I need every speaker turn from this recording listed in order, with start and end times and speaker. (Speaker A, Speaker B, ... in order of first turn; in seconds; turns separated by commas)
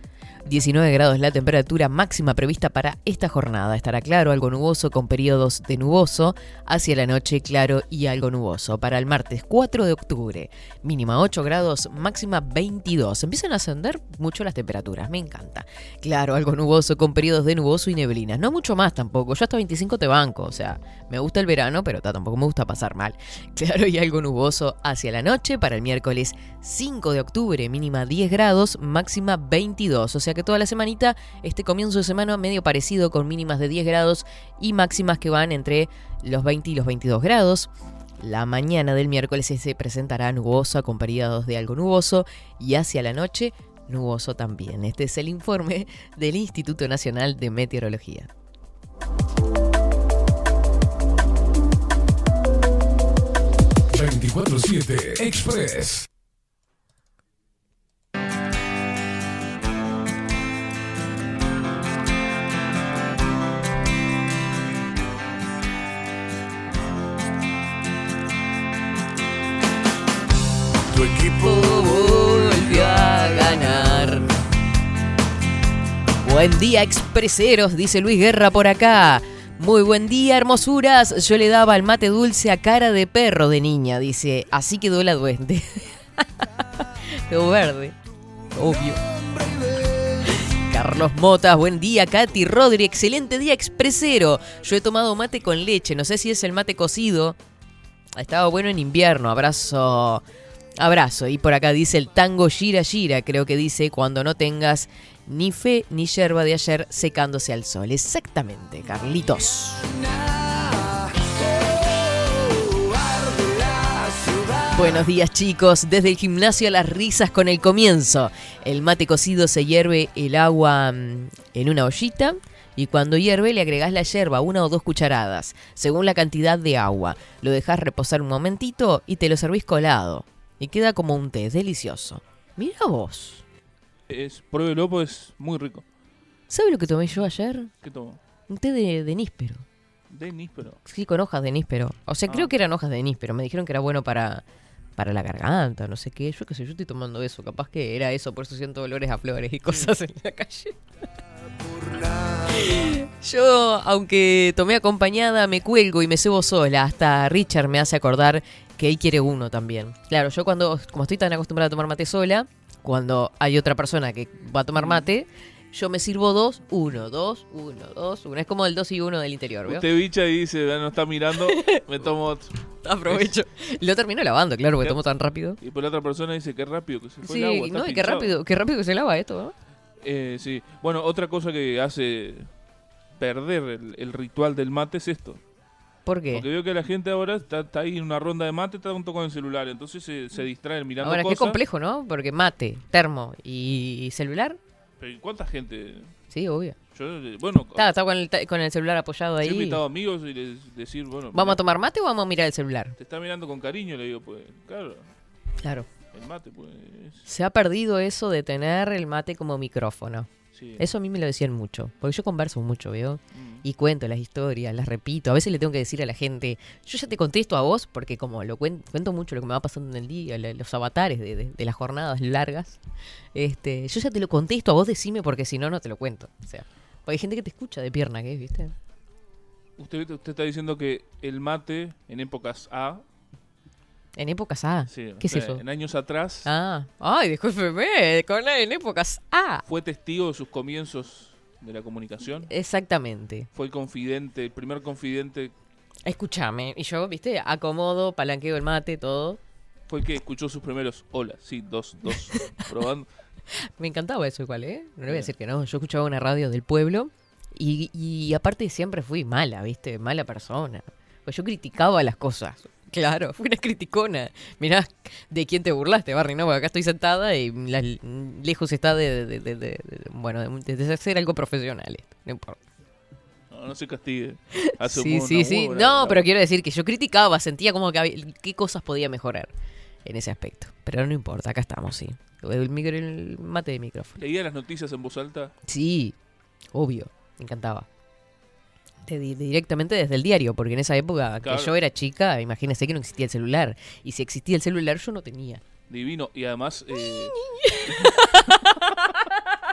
Speaker A: 0.4-48.3, Speaker B: 53.9-56.1, Speaker A: 70.9-74.3, Speaker A: 76.2-88.0, Speaker A: 88.5-89.0, Speaker A: 90.2-97.3, Speaker A: 98.2-100.2, Speaker A: 100.8-109.9, Speaker A: 114.7-133.4, Speaker C: 134.1-135.8, Speaker A: 136.5-137.7, Speaker C: 137.8-138.2, Speaker A: 138.5-139.6, Speaker C: 140.1-140.8, Speaker A: 140.8-144.4, Speaker A: 145.0-150.8, Speaker A: 152.5-169.8, Speaker C: 164.8-165.1, Speaker C: 169.7-173.3, Speaker A: 171.5-171.8, Speaker A: 172.8-175.6, Speaker C: 175.6-178.3, Speaker A: 177.2-179.5, Speaker C: 180.0-182.5, Speaker C: 183.2-185.4, Speaker A: 186.1-186.4, Speaker C: 186.3-191.6, Speaker A: 191.0-194.6, Speaker C: 195.0-196.1, Speaker A: 196.3-196.8, Speaker C: 196.9-197.8, Speaker A: 197.8-199.8, Speaker C: 199.4-201.6, Speaker A: 201.3-202.9, Speaker C: 203.0-205.1, Speaker A: 205.6-205.9, Speaker C: 206.1-207.3, Speaker A: 207.2-222.8, Speaker C: 210.5-210.8, Speaker C: 213.3-213.6, Speaker A: 223.3-228.7, Speaker C: 229.8-233.0, Speaker A: 234.2-235.6, Speaker C: 234.9-236.5, Speaker A: 236.4-239.6, Speaker C: 239.7-242.5, Speaker A: 242.5-243.5, Speaker C: 243.5-245.5, Speaker A: 246.1-249.4, Speaker C: 249.9-253.1, Speaker A: 253.8-272.6, Speaker C: 273.5-276.2, Speaker A: 274.5-279.5, Speaker A: 280.0-284.2, Speaker C: 284.2-285.5, Speaker A: 285.7-286.1, Speaker A: 286.7-287.9, Speaker A: 289.0-295.6, Speaker C: 291.4-291.7, Speaker C: 295.9-298.8, Speaker A: 297.3-299.2